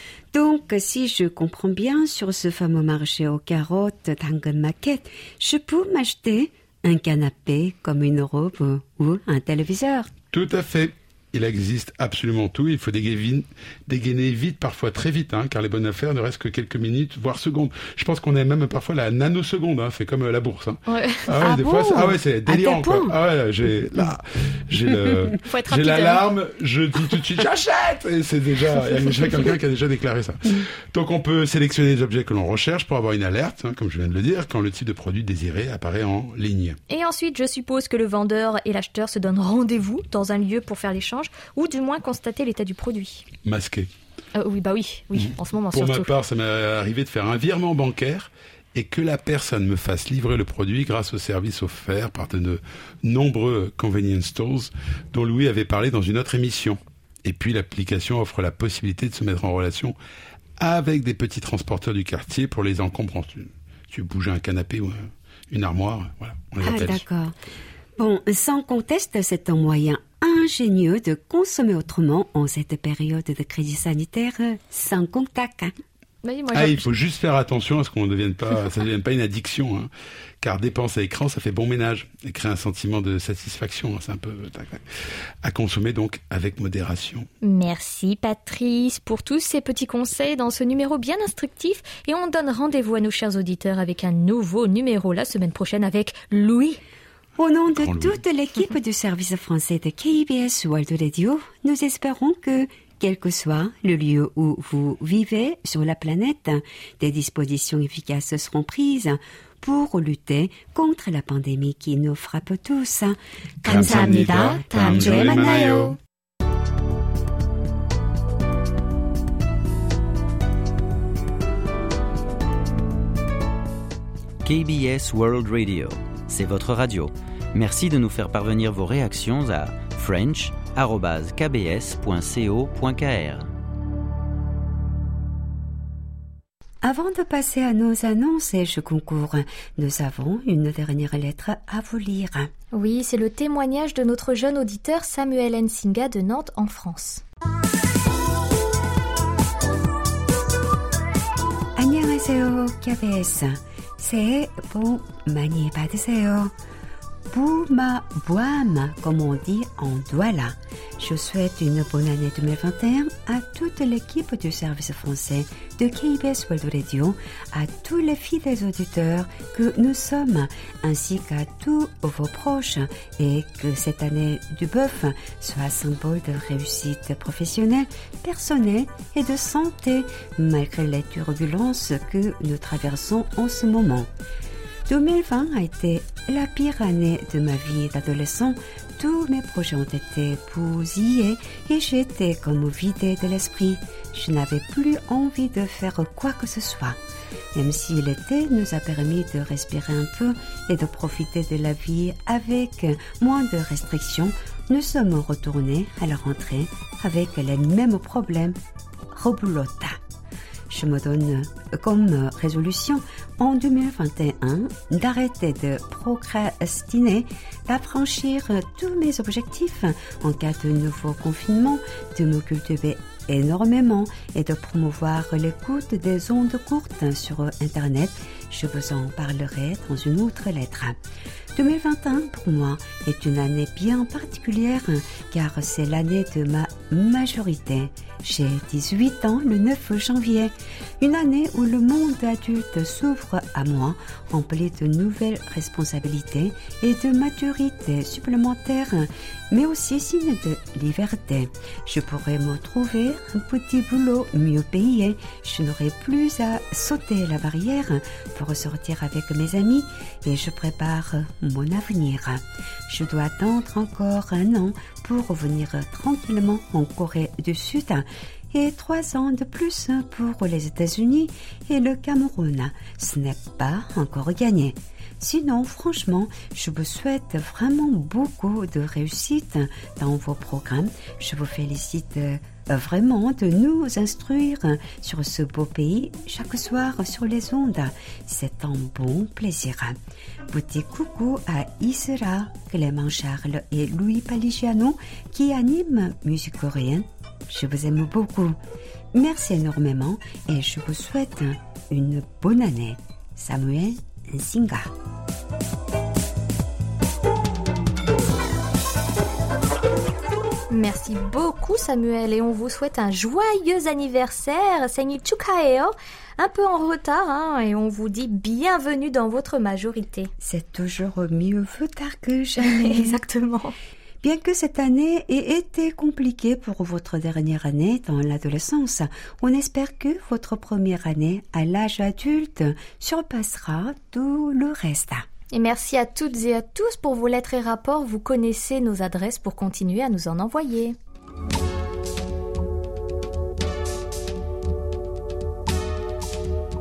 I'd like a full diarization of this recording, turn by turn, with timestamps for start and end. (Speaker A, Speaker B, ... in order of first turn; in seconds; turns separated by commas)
Speaker A: 0.3-10.1, Speaker B: 10.3-36.8, Speaker C: 20.9-21.4, Speaker A: 21.4-23.1, Speaker C: 25.4-26.2, Speaker C: 36.9-43.3, Speaker B: 43.5-43.9, Speaker C: 44.4-46.1, Speaker B: 45.2-60.0, Speaker B: 60.6-67.0, Speaker A: 66.6-67.3, Speaker A: 68.0-75.7, Speaker C: 76.2-76.9, Speaker B: 76.5-79.9, Speaker B: 80.4-84.8, Speaker B: 85.4-87.3, Speaker C: 87.4-96.8, Speaker A: 97.4-115.9, Speaker B: 97.7-98.2, Speaker B: 113.6-116.0, Speaker C: 113.7-115.9, Speaker D: 124.4-133.5, Speaker A: 136.8-142.5, Speaker C: 142.7-147.2, Speaker A: 151.8-156.5, Speaker A: 157.3-184.1, Speaker A: 184.9-197.0, Speaker A: 197.5-208.6, Speaker A: 209.1-210.0, Speaker A: 210.7-230.9, Speaker A: 231.6-290.0, Speaker A: 290.5-298.6, Speaker A: 299.1-304.9, Speaker C: 310.7-320.3, Speaker A: 320.4-323.2, Speaker C: 322.6-323.7, Speaker A: 324.2-335.2, Speaker C: 335.5-340.9